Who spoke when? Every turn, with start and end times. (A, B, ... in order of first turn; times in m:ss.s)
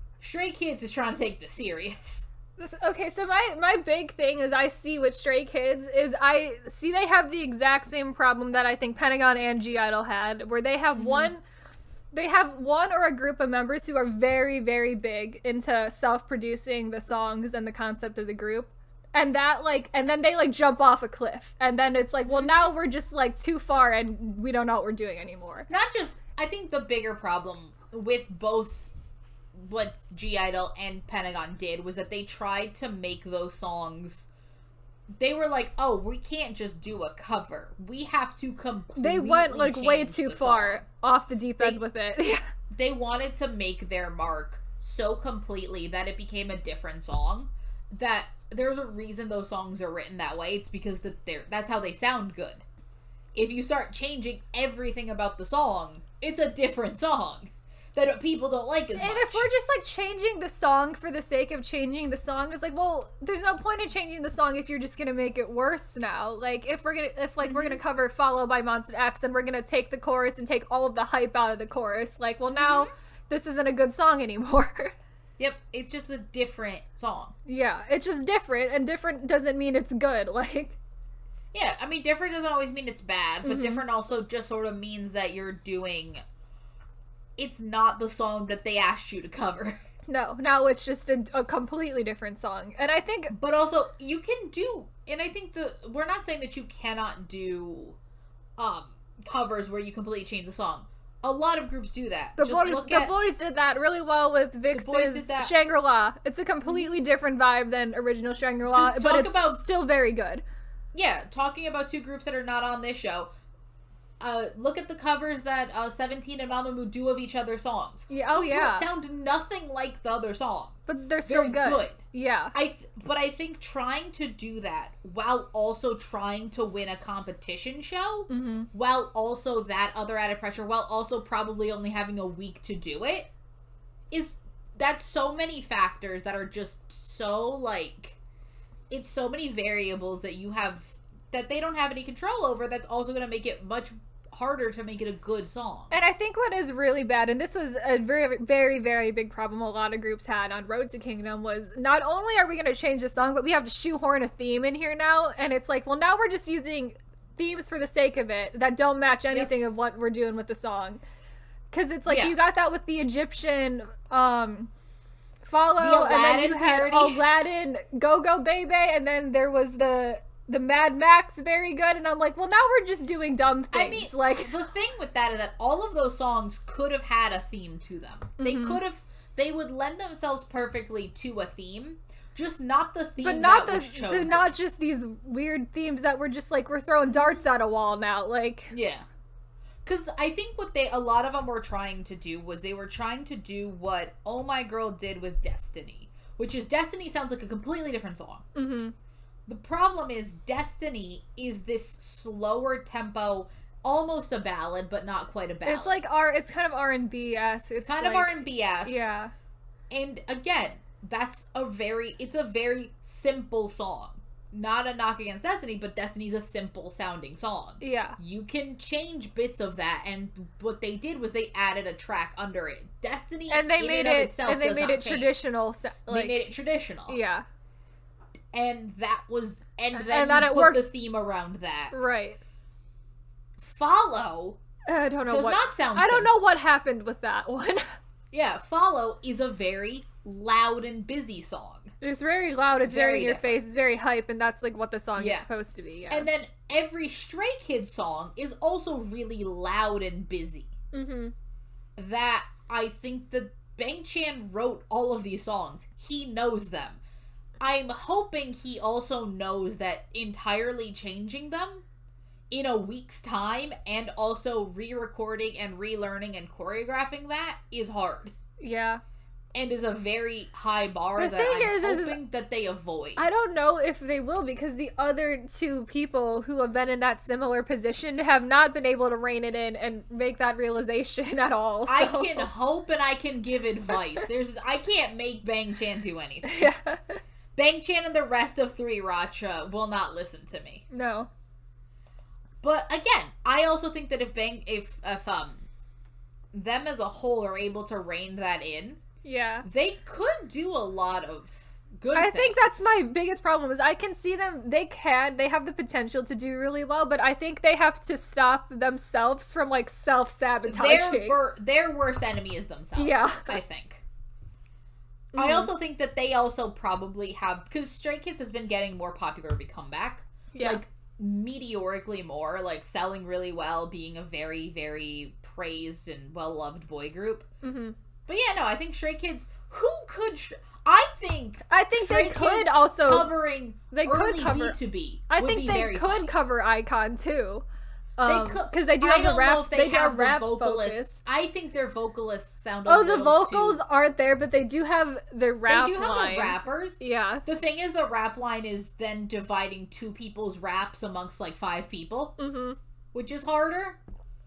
0:00.2-0:02.3 A
0:02.6-0:11.4 B
0:11.0-0:11.3 A
0:12.1-0:25.7 B
0:22.3-0:22.7 A
0:25.7-0:28.9 A
0:29.6-0:34.3 A
0:35.2-0:40.8 A
0:39.0-0:42.4 B
0:42.7-0:52.6 A
0:53.4-0:59.5 A
0:59.0-1:14.9 B
1:07.4-1:07.8 A
1:12.5-1:12.9 A
1:15.4-1:17.4 A
1:17.5-1:20.8 B
1:21.5-1:26.2 A
1:23.4-1:23.8 B
1:27.4-1:29.8 A
1:30.1-1:33.3 B
1:33.3-1:38.0 A
1:38.6-1:43.2 A
1:42.4-1:50.4 B
1:44.7-1:45.5 A
1:46.6-1:46.9 A
1:48.6-1:49.6 A
1:50.9-1:53.3 A
1:54.2-2:02.0 A
1:58.1-1:58.9 B
2:00.9-2:02.6 B
2:02.5-2:13.3 A
2:08.3-2:08.7 B
2:14.1-2:18.2 A
2:18.9-2:25.9 A
2:25.9-2:41.0 B
2:41.7-2:44.7 B
2:42.1-2:42.4 A
2:45.4-2:54.5 B
2:45.8-2:47.3 A
2:53.7-3:04.5 A
2:58.4-2:58.8 B
3:03.2-3:08.7 B
3:07.1-3:07.4 A
3:08.7-3:09.0 A
3:09.8-3:18.4 A
3:18.6-3:19.0 B
3:19.5-3:26.0 A
3:25.6-3:29.3 B
3:27.8-3:29.0 A
3:29.9-3:45.3 A
3:37.8-3:38.2 B
3:43.5-3:46.4 B
3:46.1-3:47.2 A
3:47.1-3:47.4 B
3:48.5-3:51.9 A
3:49.9-3:50.9 B
3:51.9-3:52.4 B
3:53.6-3:54.6 A
3:54.9-3:57.9 B
3:55.3-3:56.4 A
3:58.3-4:01.9 A
4:02.0-4:06.3 B
4:02.8-4:03.6 A
4:05.2-4:05.5 A
4:06.1-4:10.7 A
4:10.9-4:11.3 B
4:12.0-4:17.0 A
4:17.6-4:21.8 A
4:22.5-4:28.3 A
4:28.6-4:29.0 B
4:29.5-4:33.3 A
4:31.2-4:32.2 B
4:33.2-4:42.5 B
4:41.9-4:46.7 A
4:46.4-4:47.2 B
4:47.6-4:50.8 A
4:50.9-4:51.3 B
4:52.6-4:55.6 A
4:56.5-4:59.0 A
4:59.2-4:59.7 B
4:59.6-5:02.8 A
5:02.1-5:11.4 B
5:10.7-5:14.0 A
5:13.0-5:13.6 B
5:15.3-5:15.7 B
5:15.4-5:27.5 A
5:20.5-5:20.8 B
5:27.6-5:28.0 B
5:28.3-5:36.3 A
5:31.7-5:33.3 B
5:33.9-5:34.8 B
5:35.3-5:37.6 B
5:38.2-5:41.2 B
5:38.3-5:43.8 A
5:42.9-5:47.4 B
5:45.7-5:52.4 A
5:52.4-5:52.8 B
5:53.1-5:54.0 A